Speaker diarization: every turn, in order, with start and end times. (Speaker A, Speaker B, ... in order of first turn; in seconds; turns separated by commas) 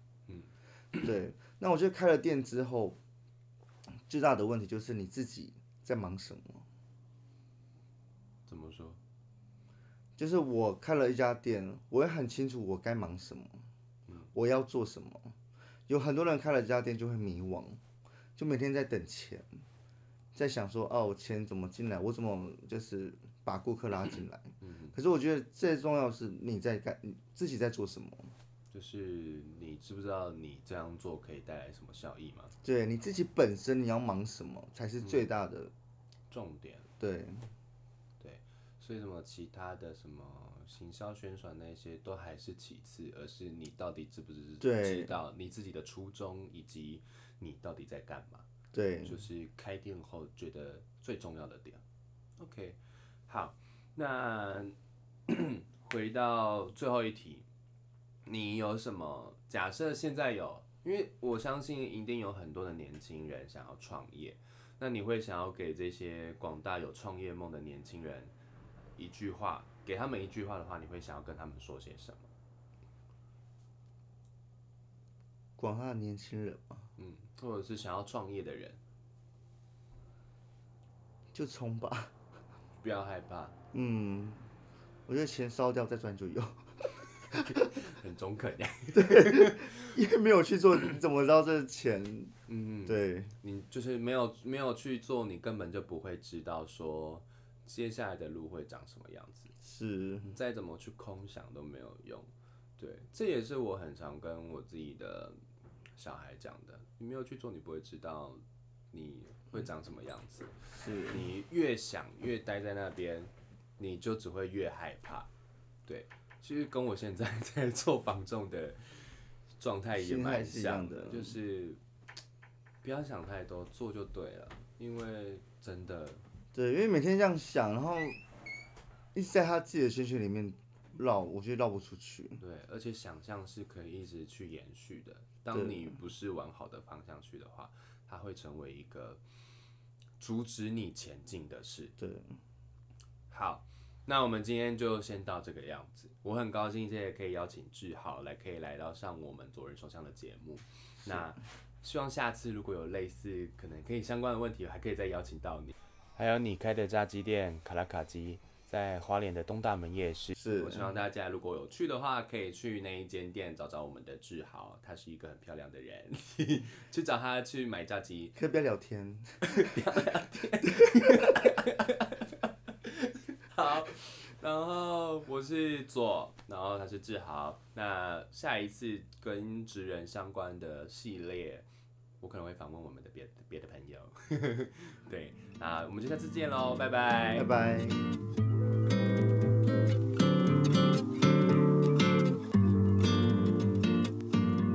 Speaker A: 0.3-1.1, Speaker B: 1.0-3.0, Speaker B: 4.1-6.6, Speaker A: 8.5-9.0, Speaker B: 10.2-13.6, Speaker B: 14.3-15.3, Speaker B: 15.9-17.8, Speaker B: 18.4-19.5, Speaker B: 20.3-28.3, Speaker A: 24.6-24.9, Speaker A: 28.7-32.5, Speaker B: 32.6-35.7, Speaker A: 35.0-35.3, Speaker A: 36.3-36.9, Speaker B: 37.0-37.5, Speaker A: 38.2-48.5, Speaker B: 44.6-45.1, Speaker B: 48.7-49.1, Speaker A: 49.0-51.8, Speaker A: 52.4-54.7, Speaker A: 55.3-57.5, Speaker A: 58.2-68.3, Speaker A: 69.0-72.3, Speaker B: 75.6-76.8, Speaker A: 77.0-78.8, Speaker B: 81.3-82.1, Speaker A: 82.8-83.5, Speaker B: 83.7-84.5, Speaker B: 85.1-87.7, Speaker A: 87.3-89.9, Speaker B: 88.9-92.3, Speaker A: 92.5-99.5, Speaker B: 92.8-93.3, Speaker B: 99.6-100.3, Speaker A: 100.2-105.4, Speaker A: 106.0-110.5, Speaker B: 110.7-111.2, Speaker A: 111.1-115.3, Speaker A: 115.9-121.8, Speaker B: 120.0-121.3, Speaker A: 122.8-126.2, Speaker B: 126.5-128.2, Speaker B: 129.1-132.4, Speaker A: 132.4-139.2, Speaker B: 135.5-135.9, Speaker A: 140.2-141.9, Speaker B: 142.0-142.3, Speaker A: 143.3-168.3, Speaker B: 160.3-160.9, Speaker B: 168.3-169.8, Speaker A: 169.4-181.7, Speaker B: 170.9-171.3, Speaker A: 182.2-187.5, Speaker B: 187.3-188.1